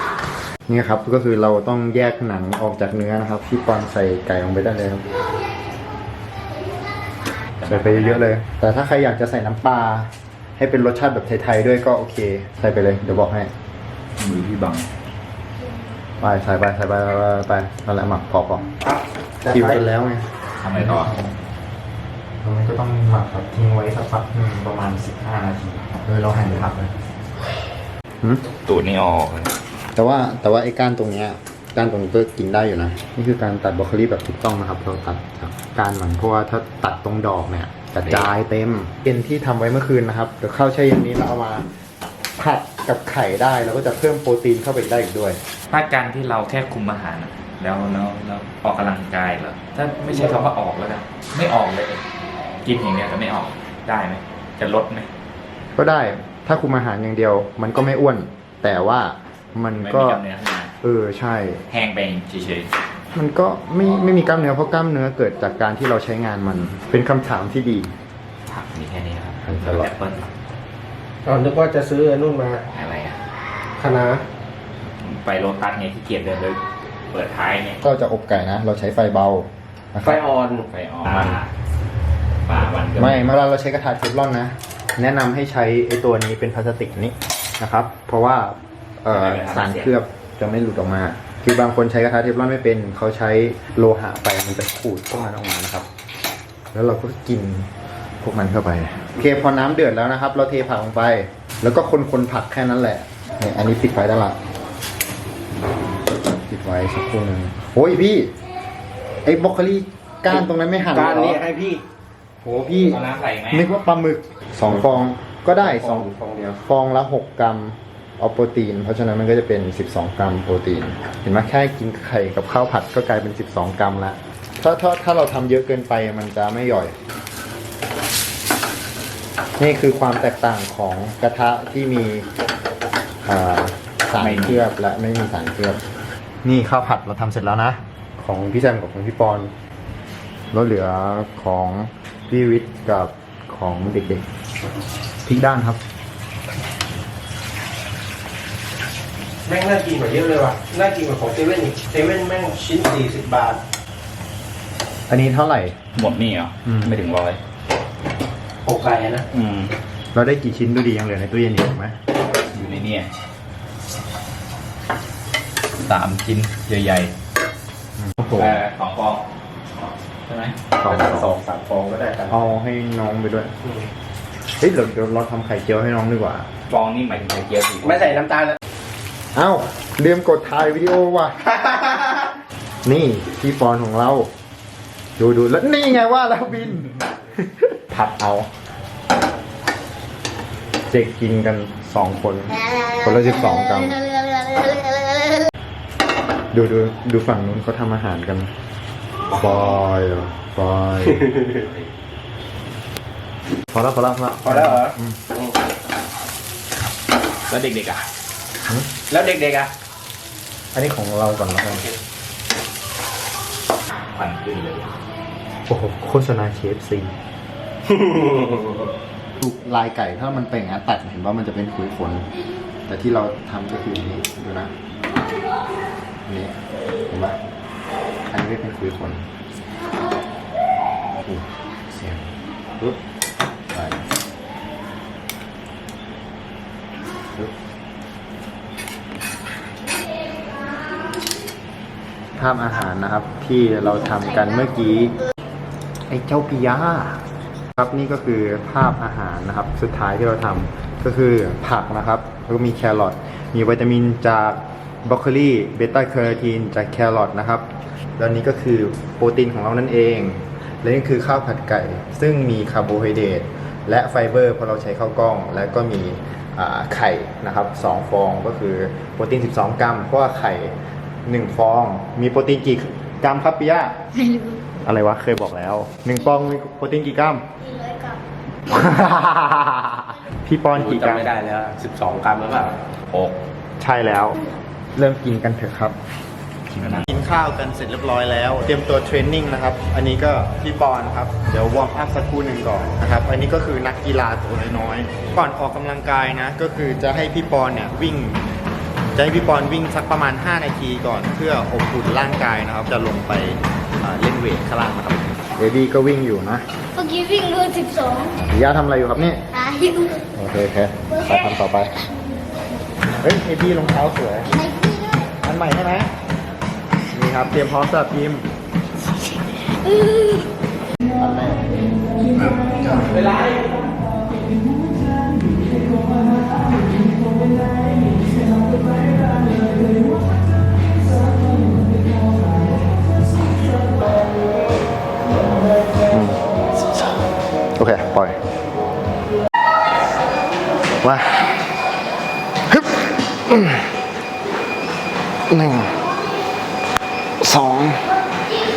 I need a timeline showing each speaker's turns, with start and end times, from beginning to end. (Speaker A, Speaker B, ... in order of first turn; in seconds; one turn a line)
Speaker A: 0.7-5.2
Speaker B: 7.6-8.3
Speaker A: 7.6-13.5
Speaker B: 14.2-14.9
Speaker A: 16.2-18.8
Speaker C: 18.8-19.8
Speaker A: 19.5-21.4
Speaker B: 20.6-21.1
Speaker A: 22.4-26.9
Speaker B: 28.6-29.5
Speaker A: 29.9-41.7
Speaker A: 42.4-45.4
Speaker B: 45.7-52.0
Speaker B: 52.6-55.1
Speaker A: 55.8-60.2
Speaker B: 59.8-60.7
Speaker A: 60.8-61.6
Speaker B: 61.7-62.8
Speaker A: 63.1-67.9
Speaker B: 68.5-70.3
Speaker A: 69.4-69.9
Speaker C: 71.2-72.7
Speaker B: 72.7-73.2
Speaker C: 73.8-74.2
Speaker B: 75.0-76.6
Speaker B: 77.1-77.8
Speaker A: 77.8-80.2
Speaker C: 80.0-80.7
Speaker B: 80.7-81.5
Speaker A: 81.1-81.4
Speaker B: 82.5-83.2
Speaker A: 83.0-95.9
Speaker B: 89.1-89.9
Speaker A: 96.7-104.4
Speaker A: 106.5-108.3
Speaker A: 109.2-111.4
Speaker C: 110.3-111.8
Speaker A: 112.4-113.0
Speaker B: 112.9-113.7
Speaker A: 113.5-126.9
Speaker C: 115.6-116.5
Speaker A: 129.6-132.2
Speaker A: 133.2-135.8
Speaker B: 134.2-134.6
Speaker A: 136.4-139.5
Speaker A: 140.5-144.3
Speaker A: 145.2-145.8
Speaker C: 149.4-153.6
Speaker A: 155.1-155.8
Speaker B: 155.9-157.4
Speaker A: 156.7-156.9
Speaker C: 158.6-159.2
Speaker B: 159.3-159.7
Speaker A: 160.1-162.0
Speaker B: 162.5-163.1
Speaker B: 165.8-167.1
Speaker A: 168.0-168.6
Speaker B: 168.3-169.2
Speaker B: 169.8-170.6
Speaker A: 170.8-171.3
Speaker C: 170.8-172.5
Speaker A: 172.3-173.5
Speaker A: 174.6-176.5
Speaker B: 176.7-178.2
Speaker C: 177.8-178.6
Speaker A: 179.3-181.5
Speaker C: 181.6-182.2
Speaker A: 182.8-184.3
Speaker A: 185.2-188.5
Speaker A: 190.9-194.0
Speaker D: 194.4-194.9
Speaker A: 196.5-198.5
Speaker A: 199.3-201.3
Speaker B: 199.3-199.8
Speaker C: 201.0-201.7
Speaker B: 201.4-201.9
Speaker A: 203.7-205.2
Speaker C: 204.4-205.6
Speaker B: 207.5-208.1
Speaker C: 209.1-209.7
Speaker A: 210.7-211.9
Speaker C: 211.7-212.0
Speaker B: 213.9-214.9
Speaker A: 215.7-217.2
Speaker C: 217.8-218.9
Speaker A: 219.4-222.3
Speaker A: 222.9-224.7
Speaker A: 226.3-226.6
Speaker A: 227.1-227.4
Speaker A: 228.3-229.3
Speaker A: 231.2-233.0
Speaker A: 233.7-234.1
Speaker A: 242.3-245.2
Speaker A: 246.1-247.2
Speaker A: 247.7-270.7
Speaker A: 271.2-273.9
Speaker D: 274.1-274.6
Speaker A: 274.8-277.5
Speaker D: 277.6-278.2
Speaker A: 278.7-281.3
Speaker C: 280.7-282.8
Speaker B: 283.1-283.4
Speaker A: 283.8-284.4
Speaker A: 284.9-286.0
Speaker B: 286.7-287.1
Speaker A: 286.8-298.4
Speaker A: 299.1-306.6
Speaker D: 306.9-308.4
Speaker A: 308.5-309.4
Speaker D: 309.5-310.2
Speaker A: 310.3-311.9
Speaker A: 313.2-314.5
Speaker D: 314.5-315.2
Speaker A: 315.4-316.1
Speaker A: 317.1-318.5
Speaker D: 319.8-320.4
Speaker A: 321.2-321.6
Speaker C: 322.9-323.8
Speaker A: 336.1-336.4
Speaker A: 337.8-338.4
Speaker A: 341.0-341.6
Speaker A: 342.7-343.9
Speaker A: 345.5-345.9
Speaker A: 347.4-348.0